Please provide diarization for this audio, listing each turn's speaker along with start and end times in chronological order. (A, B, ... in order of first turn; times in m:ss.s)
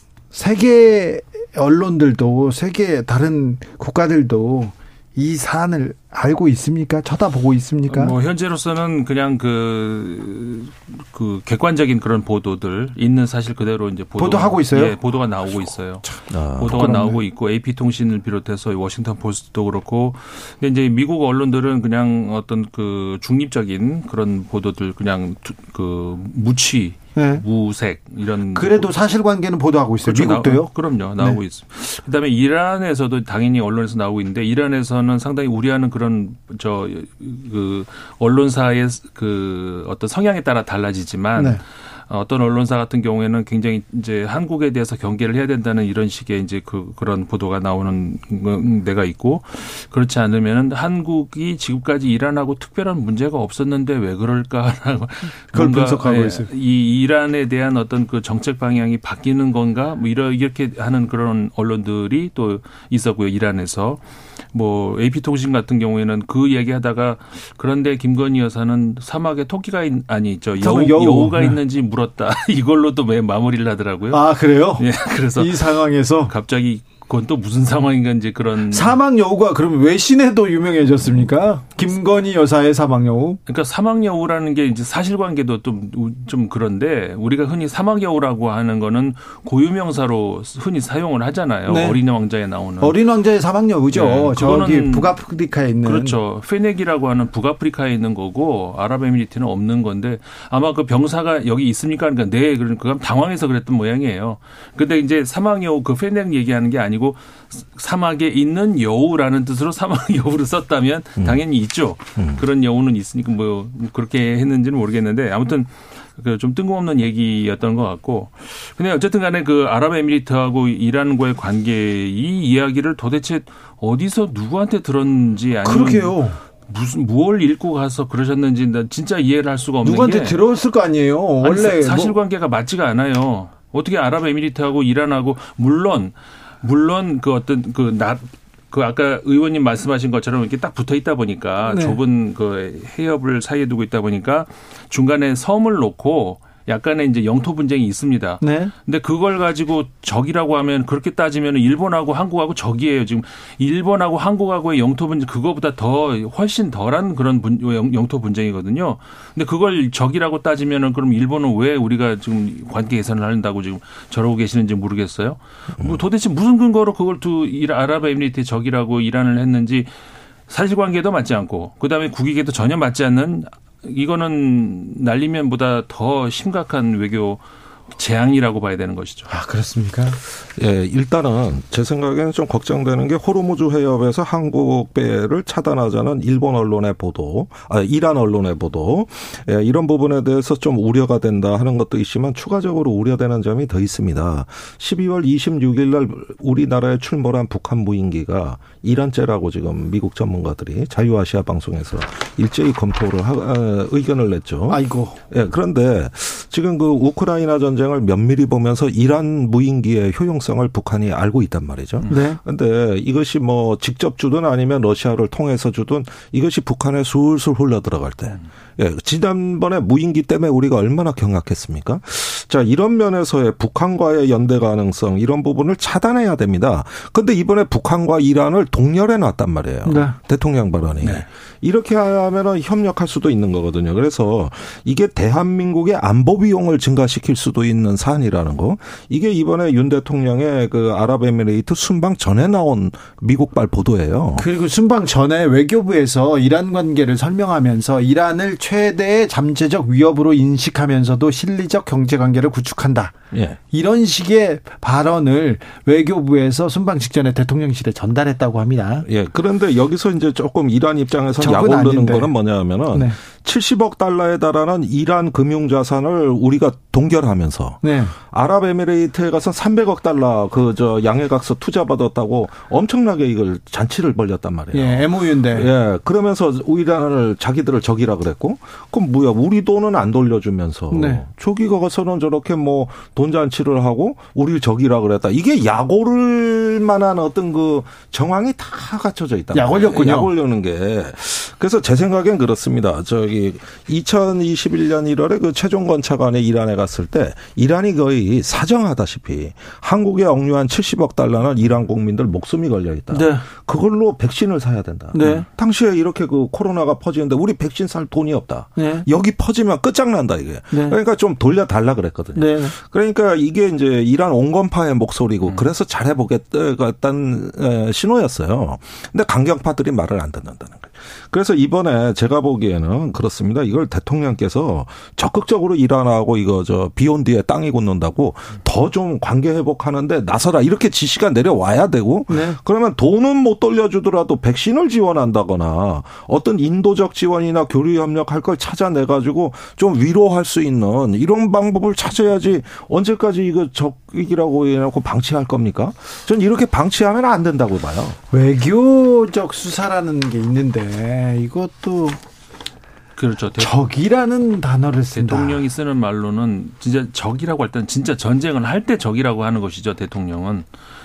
0:00.3-0:08.1 A
0:07.9-0:28.9 B
0:14.2-0:15.0 A
0:16.0-0:17.2 A
0:16.3-0:16.8 C
0:27.1-0:27.4 A
0:28.5-0:31.4 A
0:30.0-1:04.0 B
0:41.4-0:41.6 A
0:55.5-0:56.5 A
1:04.5-1:19.0 B
1:10.6-1:11.6 A
1:14.1-1:16.3 A
1:18.7-1:23.4 A
1:23.5-1:32.9 B
1:31.7-1:32.0 A
1:32.8-1:36.2 A
1:33.9-1:35.2 B
1:35.8-2:10.4 B
1:51.2-1:51.4 C
1:52.2-1:52.4 C
2:05.6-2:06.4 A
2:09.8-2:12.2 A
2:11.4-2:49.9 B
2:21.6-2:22.0 A
2:28.4-2:28.7 A
2:50.5-2:59.3 B
2:59.3-3:00.2 A
3:00.6-4:04.4 C
3:24.7-3:25.2 A
3:32.1-3:32.4 A
3:49.8-3:50.2 A
4:04.4-4:13.2 A
4:13.3-4:13.6 C
4:13.7-4:19.0 A
4:19.0-5:48.2 C
4:21.4-4:22.3 A
4:22.9-4:23.2 A
4:27.8-4:28.1 A
4:34.7-4:35.7 A
4:40.9-4:41.2 A
4:49.5-4:50.3 A
5:03.1-5:03.4 A
5:05.1-5:05.4 A
5:08.8-5:09.1 A
5:10.7-5:11.0 A
5:12.3-5:12.7 A
5:32.3-5:32.6 A
5:48.3-5:52.2 A
5:53.2-5:53.7 B
5:53.6-5:55.6 A
5:55.1-6:00.6 B